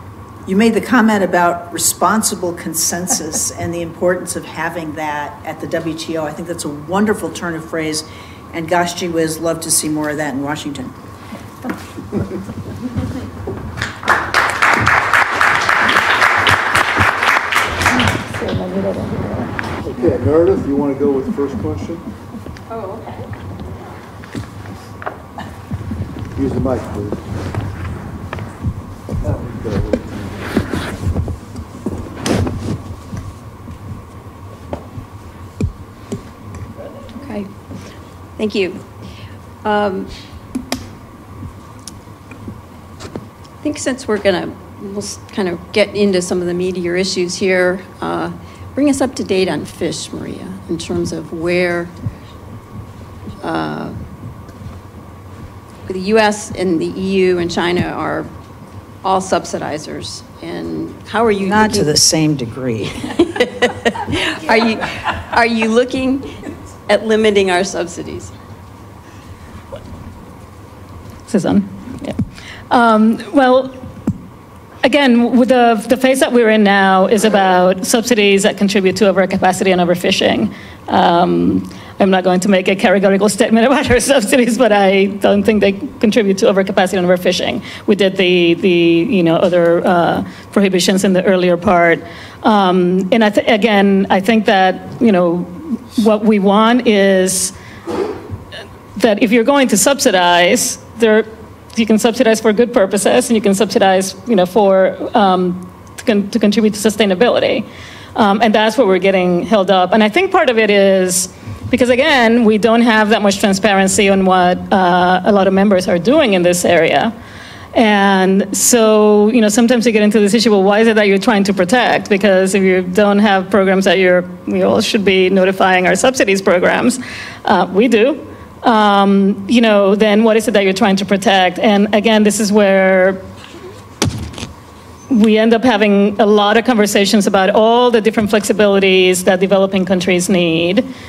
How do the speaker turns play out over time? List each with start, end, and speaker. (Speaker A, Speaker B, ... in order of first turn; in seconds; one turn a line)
Speaker A: 0.5-10.9
Speaker B: 18.4-19.5
Speaker C: 19.8-22.0
Speaker D: 22.7-23.3
Speaker C: 26.4-27.2
Speaker C: 29.2-30.2
Speaker D: 37.1-37.5
Speaker D: 38.4-38.8
Speaker D: 39.6-40.1
Speaker D: 43.6-51.9
Speaker D: 53.4-54.0
Speaker D: 55.9-58.3
Speaker D: 59.0-61.9
Speaker A: 61.4-63.2
Speaker D: 63.3-68.3
Speaker B: 71.3-72.1
Speaker B: 72.7-73.7
Speaker B: 74.8-97.5
Speaker B: 99.0-117.1
Speaker B: 117.7-133.2
Speaker B: 135.1-140.9